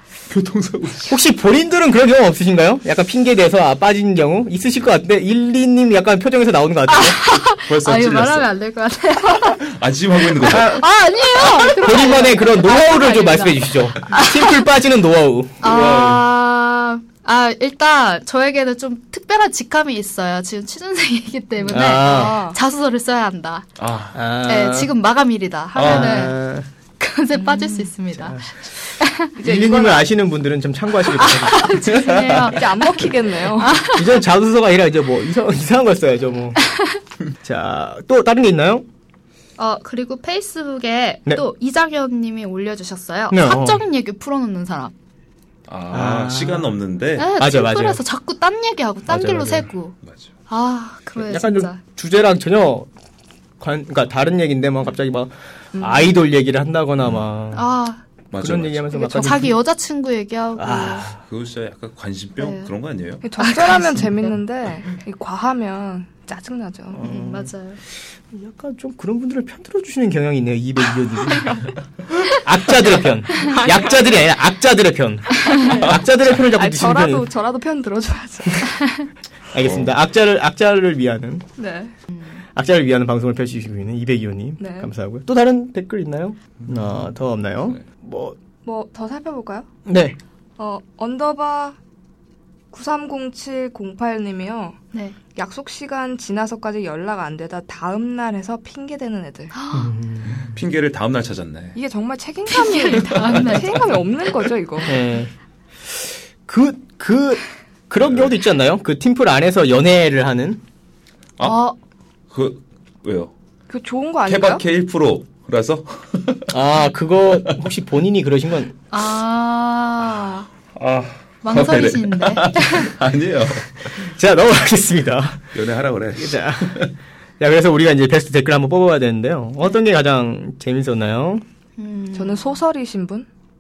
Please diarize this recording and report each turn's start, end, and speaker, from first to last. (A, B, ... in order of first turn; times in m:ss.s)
0:00.3-0:01.2 A
0:01.0-0:07.2 B
0:06.9-0:09.6 C
0:07.7-0:08.5 A
0:09.6-0:10.8 A
0:10.2-0:14.6 C
0:10.4-0:10.9 B
0:11.4-0:11.9 A
0:11.6-0:15.7 B
0:15.6-0:23.7 C
0:15.6-0:16.3 A
0:21.7-0:22.4 B
0:21.7-0:22.6 D
0:23.8-0:24.2 A
0:24.1-0:24.9 B
0:24.4-0:26.3 C
0:25.7-0:26.3 A
0:25.8-0:26.7 B
0:27.0-0:28.4 C
0:27.4-0:27.9 D
0:28.1-0:28.5 B
0:29.0-0:29.3 C
0:29.3-0:30.1 D
0:29.4-0:32.4 B
0:31.2-0:32.9 C
0:32.1-0:32.4 A
0:32.4-0:33.8 D
0:33.6-0:34.1 C
0:33.9-0:36.6 B
0:37.4-0:38.9 B
0:39.6-0:44.9 C
0:43.3-0:43.8 B
0:45.7-0:47.3 A
0:45.9-0:46.7 B
0:47.2-0:50.0 C
0:47.4-0:48.0 B
0:49.1-0:49.7 B
0:50.5-0:51.8 C
0:51.2-0:52.9 B
0:53.6-0:57.7 B
0:55.8-0:56.1 D
0:57.5-0:58.0 C
0:58.3-0:58.9 A
0:58.4-0:59.6 B
0:58.9-1:01.1 C
1:00.6-1:01.2 B
1:01.2-1:03.2 A
1:02.4-1:02.7 C
1:03.2-1:07.0 D
1:03.4-1:04.3 C
1:06.9-1:07.5 B
1:07.0-1:07.8 C
1:08.3-1:11.6 B
1:11.2-1:11.7 D
1:12.3-1:17.3 B
1:13.3-1:14.3 D
1:15.4-1:18.7 D
1:19.5-1:21.4 B
1:19.6-1:19.9 A
1:21.6-1:21.9 D
1:22.6-1:28.4 B
1:24.6-1:24.9 D
1:28.6-1:29.7 D
1:29.9-1:30.2 B
1:30.6-1:31.8 D
1:32.7-1:34.8 D
1:35.4-1:39.5 D
1:39.5-1:39.9 C
1:39.7-1:40.5 B
1:40.4-1:41.8 A
1:41.7-1:45.0 D
1:42.5-1:43.9 C
1:43.1-1:43.8 A
1:44.9-1:45.3 B
1:45.9-1:50.6 B
1:51.4-1:51.8 C
1:52.3-1:53.3 A
1:53.7-1:54.6 D
1:54.3-1:56.6 A
1:56.5-1:58.8 B
1:58.9-2:00.5 C
2:00.8-2:04.1 A
2:01.4-2:02.9 C
2:04.0-2:05.6 B
2:05.5-2:06.9 A
2:06.2-2:11.4 B
2:11.8-2:12.6 C
2:12.1-2:13.3 D